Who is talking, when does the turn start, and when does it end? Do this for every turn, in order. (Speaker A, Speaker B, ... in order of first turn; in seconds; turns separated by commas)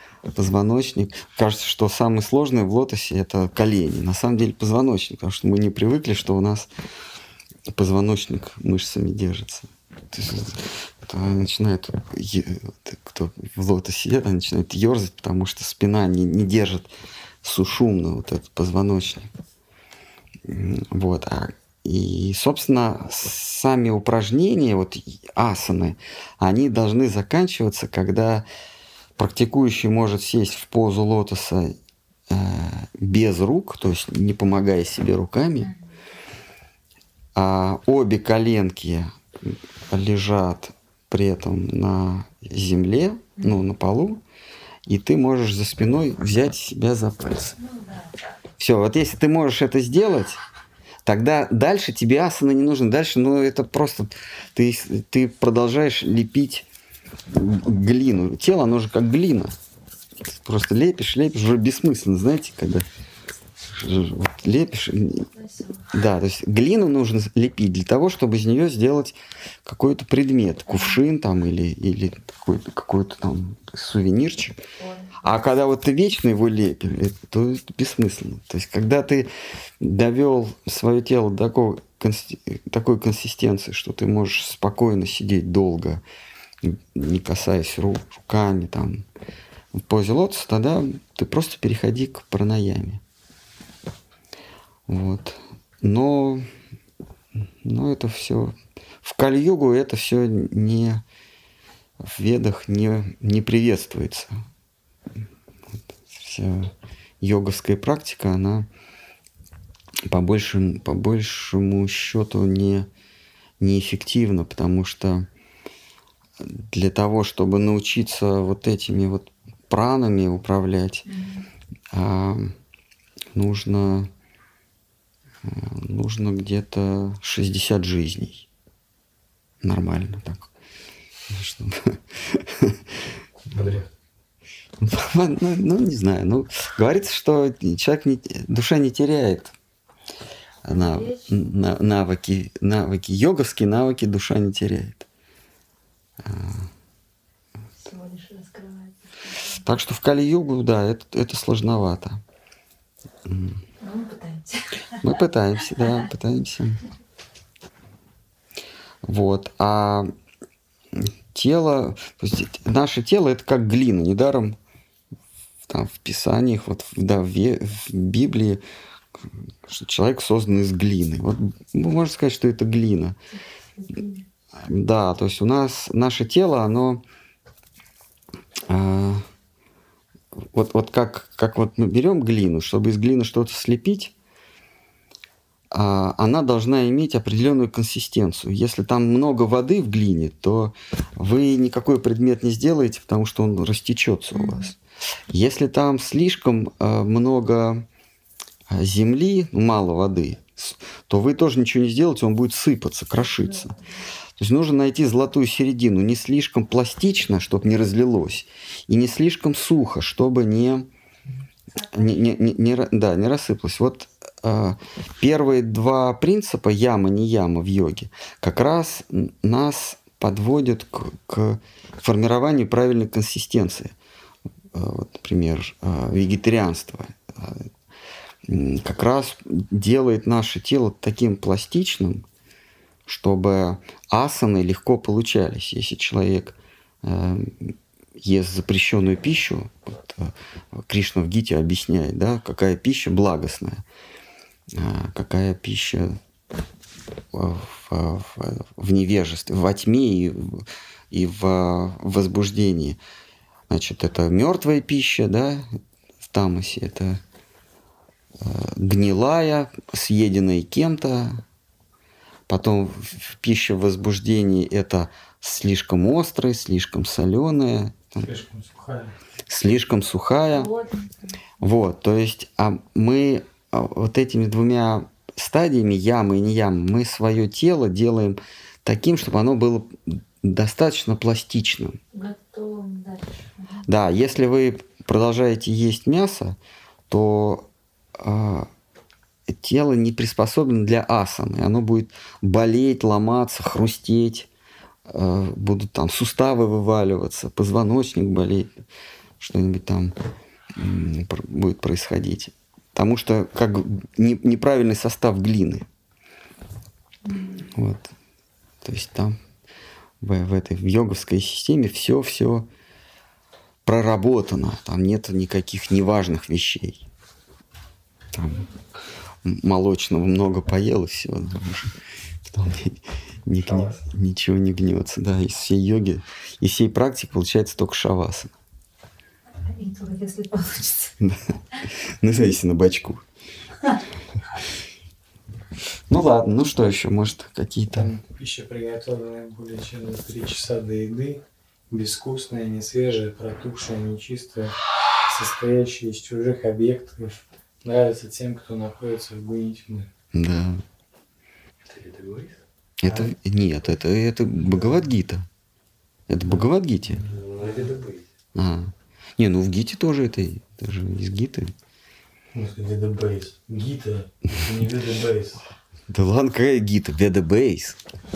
Speaker A: 0.3-6.7, Speaker A: 7.7-16.9, Speaker A: 17.4-19.3, Speaker A: 20.5-28.5, Speaker A: 29.2-31.8, Speaker A: 32.3-35.7, Speaker A: 37.4-44.2, Speaker A: 44.9-47.6, Speaker B: 47.6-48.4, Speaker A: 48.6-50.4, Speaker A: 51.1-56.7, Speaker A: 57.3-59.5, Speaker A: 60.3-62.9, Speaker A: 63.8-65.3, Speaker B: 65.3-65.9, Speaker A: 65.9-74.6, Speaker B: 74.8-75.2, Speaker A: 75.2-86.0, Speaker A: 86.6-89.0, Speaker A: 89.7-93.0, Speaker A: 94.9-96.5, Speaker A: 97.6-101.0, Speaker A: 102.0-104.4, Speaker A: 106.1-108.7, Speaker A: 110.1-112.9, Speaker A: 113.6-115.3, Speaker A: 116.4-121.0, Speaker B: 121.1-121.5, Speaker A: 121.9-122.5, Speaker A: 123.4-124.1, Speaker A: 125.4-128.5, Speaker A: 129.6-130.5, Speaker A: 131.3-132.8, Speaker A: 133.5-133.8, Speaker C: 133.5-133.9, Speaker A: 134.8-139.5, Speaker A: 140.7-145.1, Speaker B: 140.7-141.5, Speaker A: 146.2-146.7, Speaker B: 147.8-149.6, Speaker A: 149.6-152.2, Speaker A: 153.3-153.6, Speaker B: 153.8-155.0, Speaker A: 155.0-156.8, Speaker A: 159.0-160.1, Speaker A: 160.9-164.6, Speaker A: 165.7-168.6, Speaker A: 169.7-173.2, Speaker B: 173.3-174.2, Speaker A: 174.6-177.0, Speaker A: 178.7-179.2, Speaker A: 180.5-184.1, Speaker A: 185.7-194.8, Speaker B: 194.3-194.7, Speaker A: 195.3-197.8, Speaker A: 198.7-203.7, Speaker B: 203.2-204.0, Speaker A: 204.4-210.9, Speaker B: 211.8-212.2, Speaker A: 211.9-223.9, Speaker A: 224.7-227.7, Speaker A: 228.5-232.2, Speaker A: 233.1-243.8, Speaker A: 244.7-246.2, Speaker A: 247.3-253.0, Speaker A: 253.7-255.7, Speaker A: 256.3-257.2, Speaker A: 258.4-261.4, Speaker A: 262.5-268.3, Speaker D: 268.2-269.1, Speaker A: 269.5-270.7, Speaker B: 270.5-271.4, Speaker A: 271.6-282.0, Speaker B: 282.1-283.9, Speaker A: 283.9-286.6, Speaker A: 287.1-287.7, Speaker A: 288.2-288.7, Speaker A: 289.5-294.5, Speaker A: 295.1-298.7, Speaker A: 299.4-300.2, Speaker A: 300.8-305.9, Speaker B: 307.2-307.6, Speaker A: 307.7-308.1, Speaker A: 308.8-309.4, Speaker A: 310.2-312.7, Speaker A: 313.9-317.1, Speaker A: 318.3-318.7, Speaker A: 319.4-321.9, Speaker A: 322.4-328.5, Speaker B: 329.6-331.2, Speaker A: 331.2-333.2, Speaker A: 336.1-338.1, Speaker D: 337.9-350.1, Speaker A: 350.3-350.8, Speaker C: 351.9-352.6, Speaker A: 353.0-355.5, Speaker D: 353.1-353.4, Speaker A: 356.3-357.2, Speaker D: 356.5-358.0, Speaker C: 357.2-358.3, Speaker A: 358.6-361.7, Speaker D: 362.5-365.6, Speaker A: 366.1-368.0